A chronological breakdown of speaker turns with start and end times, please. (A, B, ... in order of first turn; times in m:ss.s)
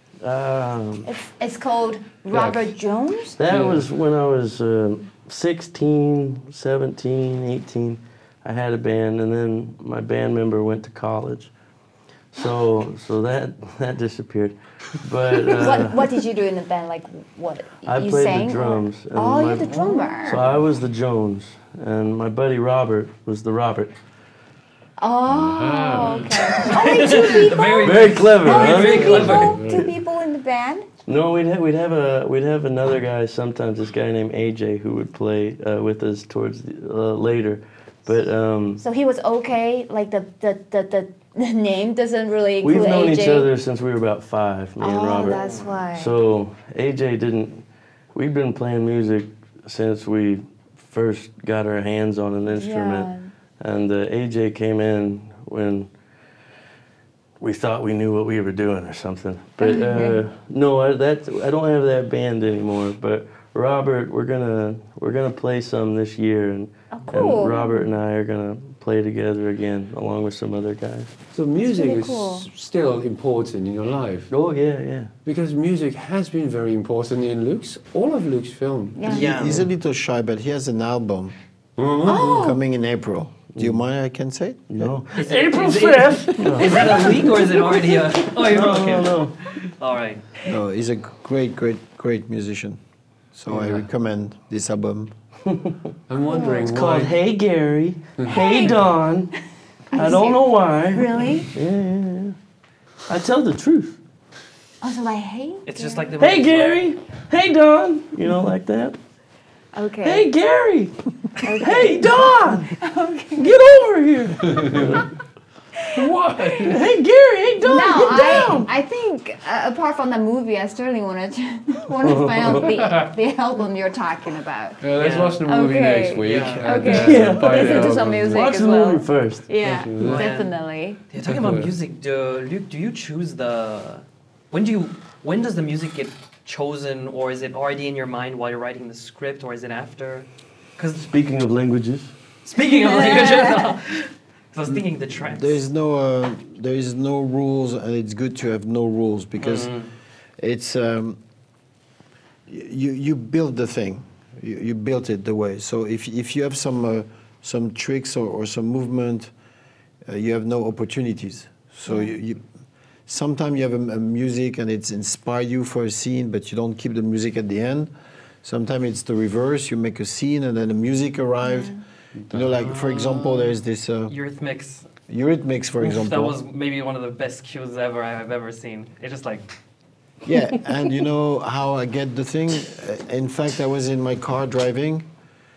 0:00.2-0:01.1 A
0:01.0-0:03.4 B
0:02.3-0:02.6 C
0:03.4-0:11.5 A
0:03.5-0:03.8 C
0:12.3-0:16.0 A
0:15.4-0:20.4 B
0:17.8-0:23.9 A
0:25.0-0:30.9 B
0:25.3-0:26.7 C
0:26.5-0:29.7 D
0:27.8-0:29.5 A
0:28.8-0:29.9 C
0:31.0-0:38.8 A
0:38.8-0:43.5 B
0:42.6-0:55.9 A
0:44.8-0:46.2 B
0:52.6-0:53.3 B
0:57.4-1:11.1 A
0:59.6-1:00.2 B
1:06.9-1:07.9 B
1:11.3-1:14.3 C
1:11.6-1:12.5 B
1:14.3-1:15.1 A
1:15.2-1:19.2 C
1:19.0-1:19.3 B
1:19.0-1:19.7 D
1:19.1-1:21.3 E
1:21.8-1:22.4 C
1:22.0-1:22.6 B
1:22.2-1:24.9 E
1:24.7-1:29.5 A
1:25.1-1:29.2 D
1:26.4-1:27.1 E
1:29.8-1:30.2 D
1:30.4-1:32.8 E
1:33.3-1:35.1 E
1:33.5-1:33.8 C
1:35.5-1:35.7 A
1:36.1-1:37.2 C
1:36.3-1:36.7 B
1:36.6-1:39.3 A
1:38.2-1:38.7 C
1:38.3-1:38.8 B
1:39.9-1:41.5 B
1:39.9-1:42.4 A
1:43.1-1:44.0 A
1:44.8-1:46.2 B
1:45.6-1:46.9 D
1:46.2-1:49.0 A
1:49.7-1:50.3 B
1:50.0-1:50.9 A
1:51.4-1:53.5 B
1:51.4-1:52.7 A
1:53.4-1:55.1 A
1:54.4-1:55.0 C
1:56.0-1:56.8 C
1:56.0-1:58.7 A
1:57.6-2:04.8 B
2:02.0-2:02.7 A
2:02.5-2:03.1 C
2:04.8-2:08.5 C
2:05.0-2:05.4 D
2:05.4-2:11.0 B
2:06.2-2:07.1 D
2:06.8-2:09.8 A
2:09.6-2:10.3 C
2:10.0-2:10.5 D
2:11.1-2:20.3 D
2:11.2-2:11.7 C
2:20.8-2:21.0 D
2:21.0-2:22.1 A
2:22.4-2:25.6 D
2:22.8-2:23.7 B
2:25.2-2:29.7 E
2:29.4-2:29.9 D
2:30.4-2:31.2 E
2:32.5-2:39.3 E
2:40.0-2:42.4 E
2:43.1-2:47.9 E
2:48.4-2:51.7 E
2:51.4-2:51.8 B
2:52.3-2:53.5 C
2:52.3-2:54.1 E
2:52.6-2:53.2 D
2:54.1-2:54.8 D
2:55.1-2:56.4 E
2:55.8-2:59.5 D
3:00.2-3:05.1 E